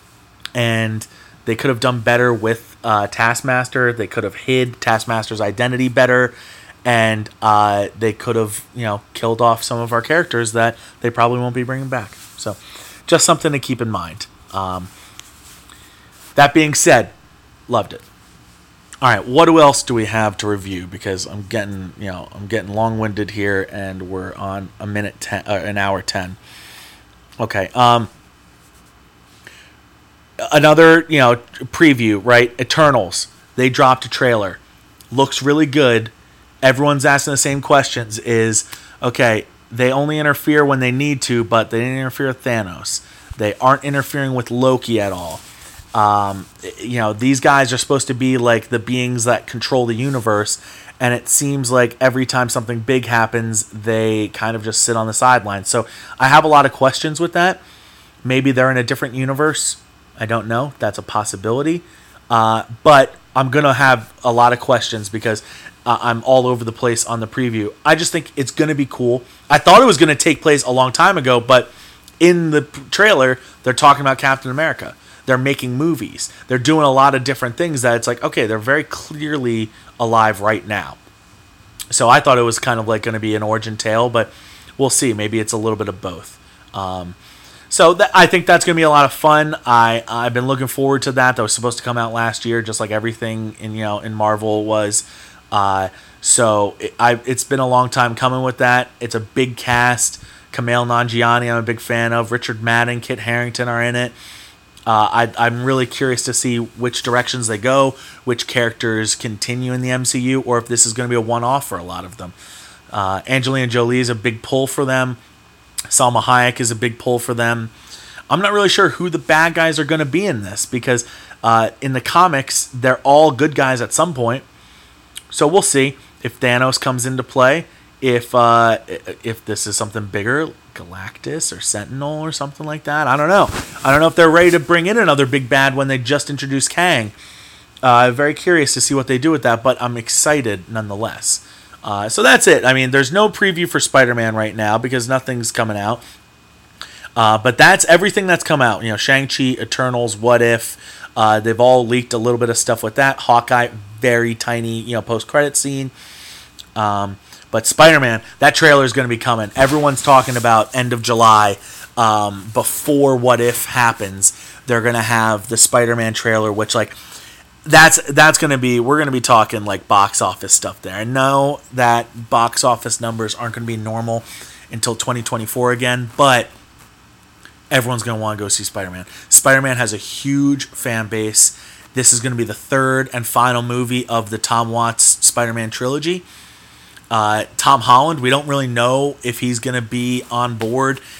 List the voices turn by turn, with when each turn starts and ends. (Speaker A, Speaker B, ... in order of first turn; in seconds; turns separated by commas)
Speaker A: 0.6-14.9, Speaker A: 16.4-17.1, Speaker A: 17.7-18.1, Speaker A: 19.0-26.4, Speaker A: 27.4-28.1, Speaker A: 30.4-34.6, Speaker A: 35.1-57.6, Speaker A: 58.2-81.0, Speaker A: 81.9-87.2, Speaker A: 87.7-104.2, Speaker A: 104.9-112.3, Speaker A: 112.9-115.2, Speaker A: 115.9-117.7, Speaker A: 118.3-124.5, Speaker A: 125.3-137.2, Speaker A: 137.8-146.0, Speaker A: 147.2-155.9, Speaker A: 156.8-167.0, Speaker A: 167.7-176.5, Speaker A: 177.7-186.3, Speaker A: 187.1-191.0